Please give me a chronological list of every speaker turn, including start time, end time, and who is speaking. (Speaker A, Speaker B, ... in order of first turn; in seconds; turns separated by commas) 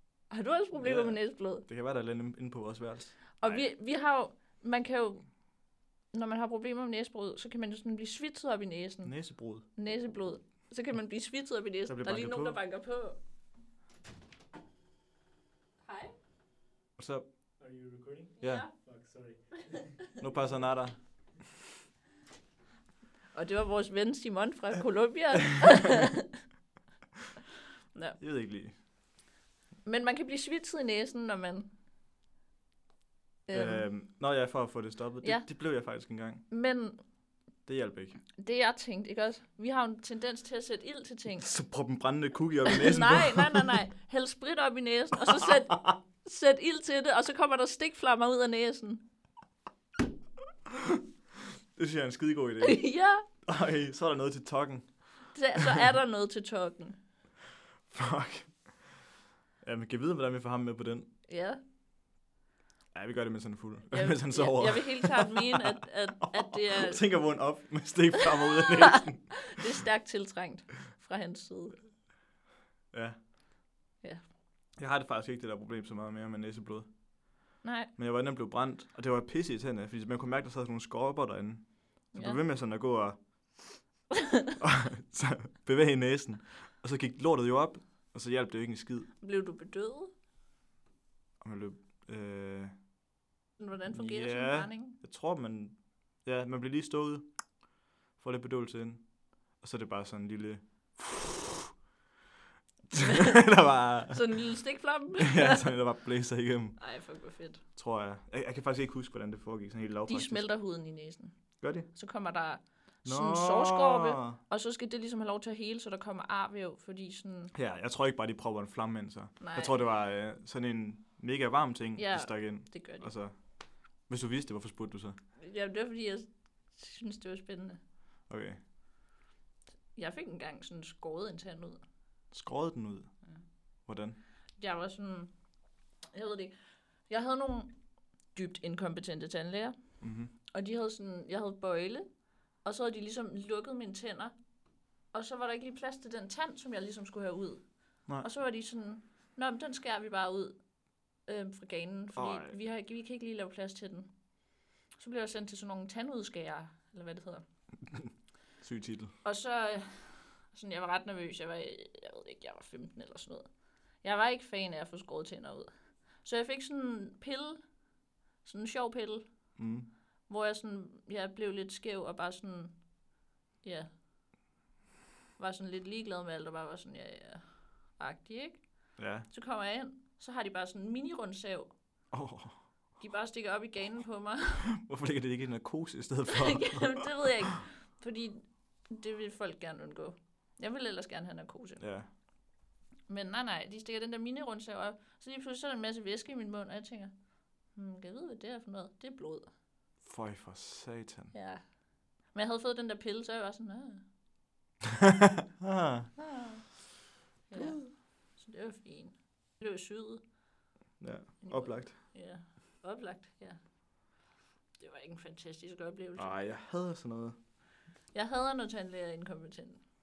Speaker A: 0.3-1.7, Speaker B: 0.8-3.6, Speaker A: 3.4-5.3, Speaker A: 6.1-9.2, Speaker B: 9.1-9.7, Speaker A: 9.8-13.2, Speaker B: 11.9-12.6, Speaker A: 15.8-16.1, Speaker B: 17.0-17.3, Speaker C: 17.6-20.5, Speaker B: 18.4-18.7, Speaker A: 18.4-18.7, Speaker B: 20.2-21.0, Speaker A: 23.3-26.4, Speaker B: 28.2-28.8, Speaker A: 29.9-31.7, Speaker A: 33.5-33.9, Speaker B: 33.5-36.4, Speaker A: 36.5-37.0, Speaker B: 37.7-38.2, Speaker A: 38.4-41.5, Speaker B: 41.4-43.8, Speaker A: 42.7-49.0, Speaker B: 45.2-46.0, Speaker B: 50.7-51.0, Speaker B: 51.8-52.9, Speaker A: 52.6-53.3, Speaker B: 53.4-55.3, Speaker A: 55.3-57.0, Speaker B: 57.9-58.9, Speaker B: 59.6-61.1, Speaker A: 61.3-61.6, Speaker B: 62.9-69.7, Speaker A: 63.9-67.0, Speaker A: 68.5-71.8, Speaker B: 72.9-73.2, Speaker B: 74.8-76.9, Speaker A: 77.6-77.9, Speaker B: 78.0-83.8, Speaker A: 82.1-82.4, Speaker B: 84.6-89.1, Speaker A: 89.2-90.1, Speaker B: 91.4-92.7, Speaker A: 93.6-95.0, Speaker B: 93.9-97.3, Speaker B: 98.2-99.1, Speaker B: 99.6-101.7, Speaker B: 102.9-104.4, Speaker A: 102.9-103.4, Speaker A: 104.1-105.7, Speaker B: 105.2-106.8, Speaker A: 106.8-107.6, Speaker B: 107.8-110.5, Speaker A: 110.1-111.4, Speaker B: 111.6-111.9, Speaker A: 111.9-117.5, Speaker B: 113.0-114.4, Speaker B: 117.5-123.3, Speaker A: 119.4-119.8, Speaker A: 122.0-123.1, Speaker B: 124.1-125.2, Speaker A: 125.4-127.8, Speaker B: 128.3-128.6, Speaker A: 129.9-131.8, Speaker B: 132.3-133.1, Speaker B: 133.9-134.2, Speaker A: 134.6-135.3, Speaker A: 136.1-136.6, Speaker A: 137.1-137.8, Speaker A: 138.3-139.8, Speaker B: 140.0-140.3, Speaker A: 140.5-142.1, Speaker A: 142.6-144.3, Speaker A: 145.1-150.6, Speaker A: 151.3-154.1, Speaker B: 152.1-152.6, Speaker A: 155.0-157.4, Speaker B: 158.6-159.1, Speaker A: 159.2-163.5, Speaker A: 164.0-165.7, Speaker A: 166.2-167.6, Speaker A: 168.4-169.3, Speaker B: 169.6-169.9, Speaker A: 170.3-172.8, Speaker A: 173.6-173.9, Speaker A: 175.4-177.4, Speaker A: 178.0-178.7, Speaker B: 179.0-179.3, Speaker A: 179.3-181.7, Speaker B: 182.1-182.6, Speaker A: 183.0-184.7, Speaker B: 184.7-187.1, Speaker A: 186.3-191.8, Speaker B: 191.8-192.1, Speaker A: 193.1-197.1, Speaker A: 197.8-199.5, Speaker B: 200.0-201.3, Speaker A: 201.3-201.6, Speaker A: 202.3-204.1, Speaker B: 205.0-206.1, Speaker A: 206.2-206.7, Speaker A: 207.5-210.2, Speaker B: 207.5-207.8, Speaker B: 211.0-212.0, Speaker A: 211.4-213.6, Speaker A: 214.8-216.4, Speaker B: 216.2-217.4, Speaker A: 218.1-219.8